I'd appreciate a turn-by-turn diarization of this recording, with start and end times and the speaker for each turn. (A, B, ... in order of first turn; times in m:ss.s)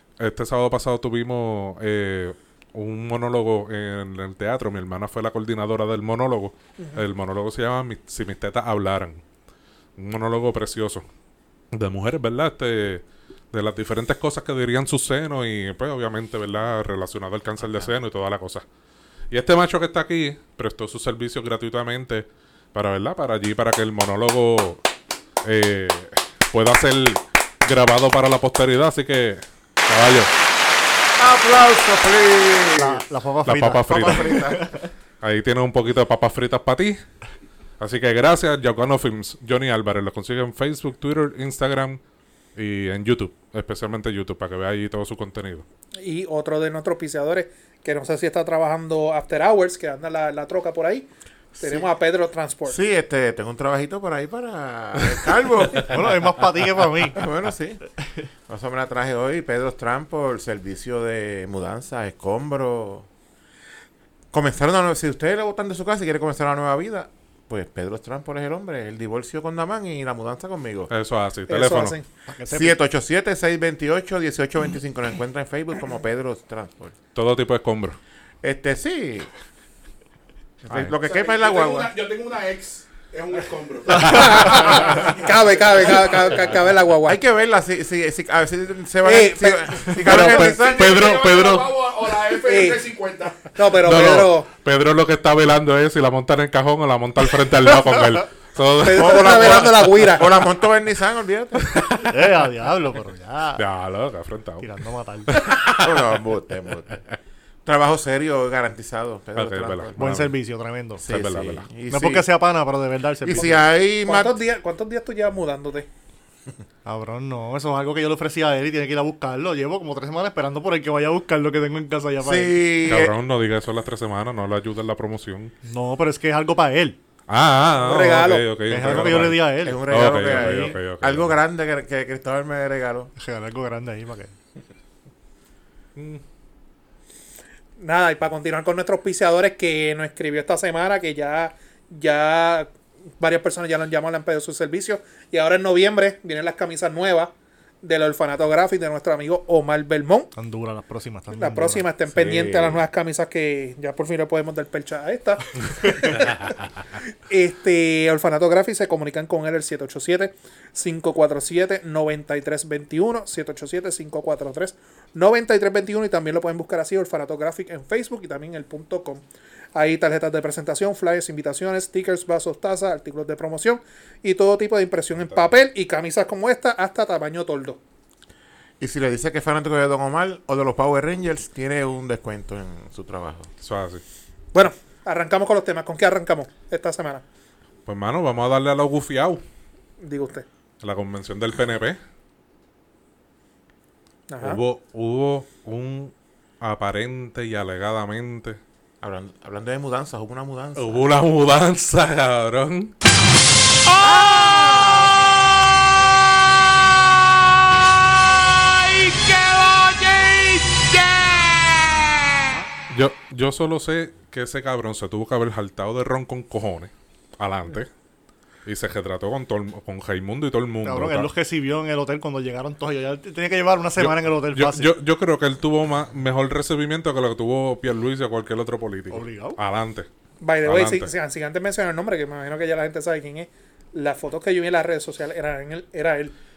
0:00.2-0:09.2 A
0:10.0-0:11.0 A
0:11.7-0:18.6 A
0:17.6-0:17.9 B
0:19.3-0:24.8 A
0:25.4-0:30.3 A
0:31.2-0:33.0 B
0:32.8-0:34.8 C
0:33.4-0:34.4 A
0:33.8-0:34.7 B
0:35.2-0:37.0 A
0:37.8-0:42.0 A
0:42.6-0:45.6 A
0:46.0-0:51.1 D
0:51.6-0:51.8 B
0:51.6-0:52.8 D
0:52.7-0:56.0 B
0:55.8-0:57.2 C
0:57.1-0:57.8 B
0:58.5-1:03.1 B
1:04.3-1:10.9 B
1:10.9-1:12.0 A
1:11.5-1:12.0 D
1:12.3-1:12.8 C
1:12.5-1:17.0 B
1:17.1-1:18.0 A
1:18.4-1:19.3 B
1:20.6-1:21.9 B
1:20.7-1:20.9 A
1:21.0-1:26.3 E
1:24.0-1:27.2 D
1:27.0-1:31.0 B
1:29.0-1:30.0 D
1:29.9-1:31.7 A
1:30.2-1:33.5 E
1:32.4-1:32.8 D
1:33.5-1:34.5 D
1:33.8-1:39.8 A
1:38.8-1:40.3 D
1:38.9-1:41.7 B
1:41.6-1:42.1 A
1:42.0-1:43.6 C
1:43.6-1:44.7 A
1:44.6-1:45.3 C
1:45.3-1:45.9 A
1:45.8-1:47.0 B
1:47.6-1:50.0 B
1:49.4-1:50.4 A
1:50.0-1:51.0 C
1:51.0-1:51.7 A
1:51.0-1:52.3 B
1:51.9-1:53.6 C
1:53.2-1:54.4 B
1:54.0-1:55.9 D
1:56.8-2:02.9 C
2:02.2-2:03.2 B
2:02.9-2:05.5 A
2:05.6-2:07.0 C
2:07.3-2:11.3 A
2:07.8-2:08.5 D
2:08.7-2:10.7 C
2:08.8-2:13.1 B
2:13.2-2:14.3 C
2:16.0-2:16.2 A
2:17.8-2:30.3 D
2:30.3-2:31.8 C
2:31.3-2:36.5 D
2:32.1-2:32.8 B
2:37.3-2:49.2 D
2:49.7-2:57.8 D
2:58.8-3:03.5 B
3:03.6-3:04.0 A
3:04.5-3:07.2 D
3:07.8-3:09.4 A
3:10.0-3:10.4 D
3:10.8-3:12.0 A
3:14.3-3:14.6 D
3:14.4-3:18.6 A
3:19.0-3:21.0 B
3:20.8-3:22.9 A
3:23.9-3:25.0 A
3:24.0-3:25.2 B
3:28.1-3:37.9 A
3:38.6-3:41.3 A
3:40.8-3:44.9 C
3:44.0-3:50.1 A
3:49.1-3:49.6 C
3:50.4-3:56.3 D
3:50.6-3:51.1 A